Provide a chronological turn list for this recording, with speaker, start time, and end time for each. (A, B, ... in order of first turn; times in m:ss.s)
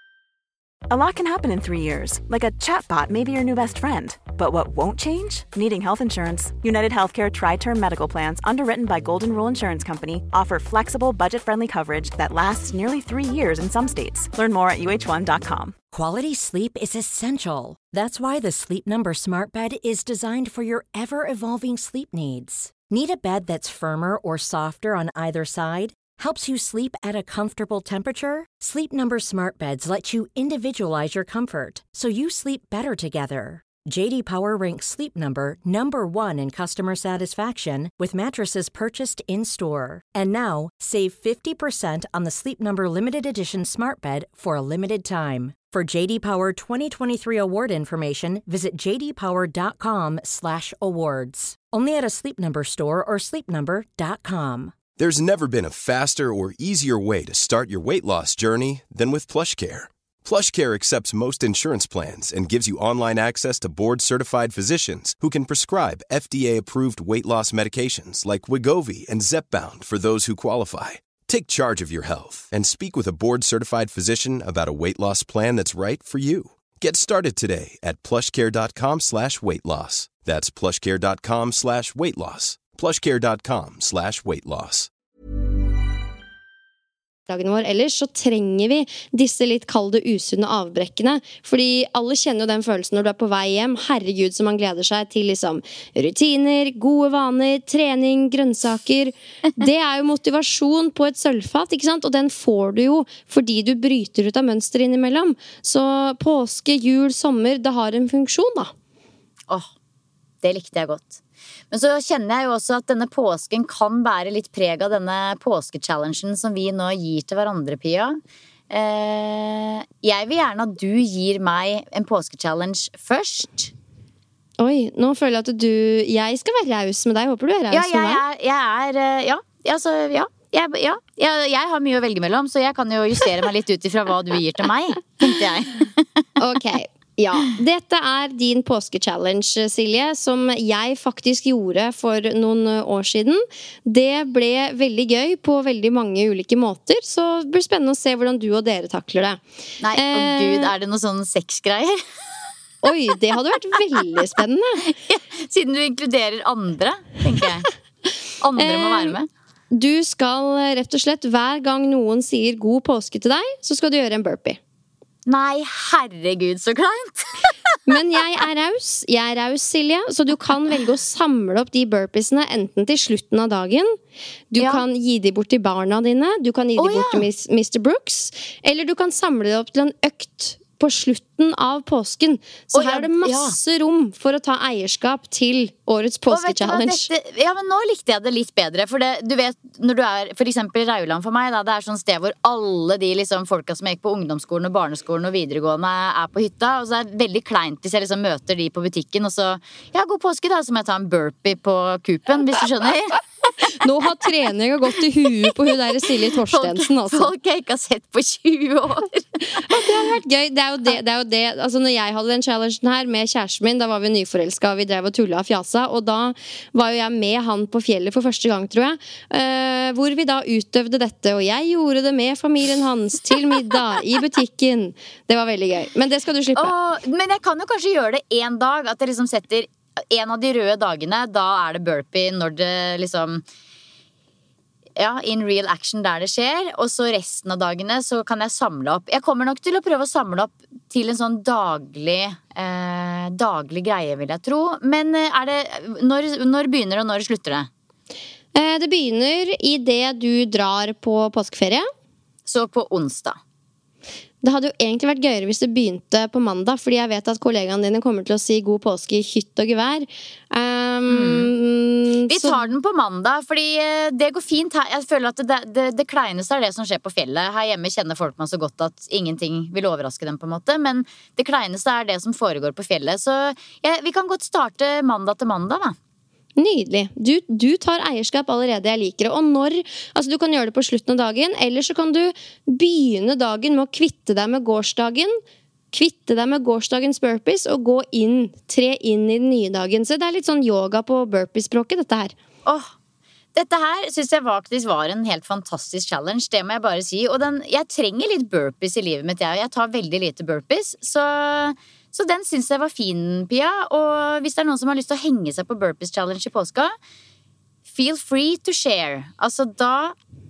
0:00.9-0:15.8 A
0:15.9-0:54.8 B
0:55.0-1:24.9 C
1:27.3-1:48.7 D
1:50.4-1:51.2 E
1:51.7-2:03.7 E
2:04.6-2:08.2 D
2:07.7-2:15.9 E
2:16.4-2:29.4 D
2:29.8-2:32.0 E
2:29.9-2:30.7 D
2:32.8-2:34.8 D
2:34.8-2:37.7 E
2:38.4-2:39.3 E
2:38.6-2:39.2 D
2:39.7-2:44.6 D
2:45.3-2:47.6 E
2:47.9-2:54.0 D
2:54.5-3:07.1 D
2:54.6-2:54.8 E
2:56.8-2:57.3 E
3:02.7-3:03.6 E
3:06.3-3:23.2 E
3:23.6-3:27.3 D
3:26.5-3:29.8 E
3:29.6-3:46.7 D
3:46.6-3:53.4 E
3:55.0-4:07.7 E
4:08.6-4:11.9 D
4:12.5-4:13.4 E
4:14.4-4:22.7 D
4:21.1-4:21.5 E
4:22.3-4:36.0 E
4:36.6-4:45.4 D
4:45.9-4:52.3 D
4:52.6-4:52.9 E
4:53.6-5:06.9 E
5:07.9-5:10.2 E